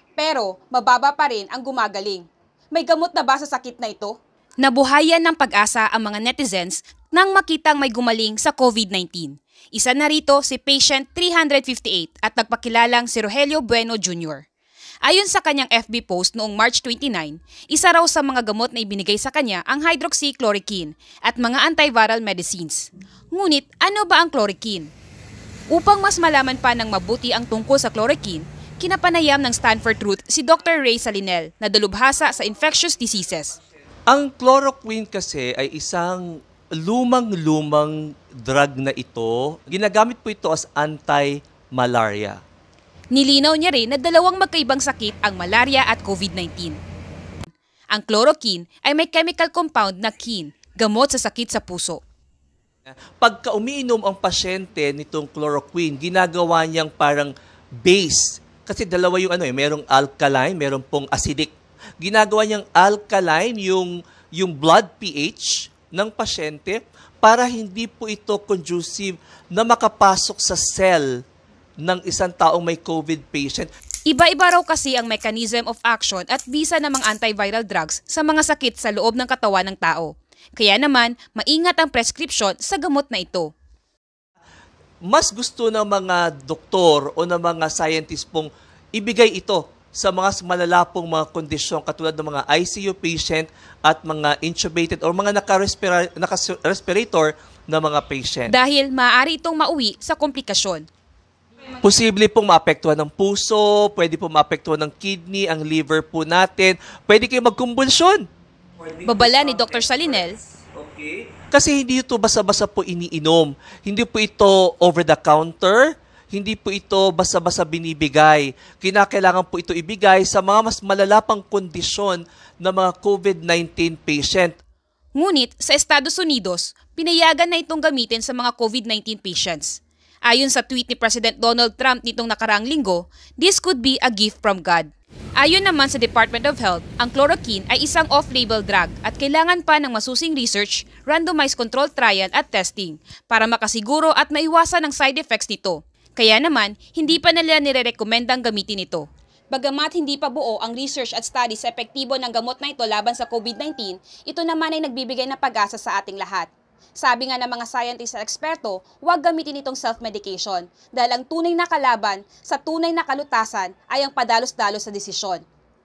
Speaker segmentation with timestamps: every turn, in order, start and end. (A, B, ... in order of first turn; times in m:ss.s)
0:00.2-0:14.4 A
0:15.0-0:24.9 A
0:25.7-0:33.6 A
0:34.1-0:42.4 B
0:43.1-0:46.8 A
0:47.9-0:52.0 A
0:52.9-0:57.3 B
0:57.8-1:11.1 B
1:11.8-1:13.7 B
1:14.1-1:23.5 A
1:25.1-1:38.5 B
1:38.5-1:40.8 A
1:41.8-1:48.2 B
1:48.8-2:04.6 B
1:49.0-1:50.4 A
2:05.1-2:45.4 A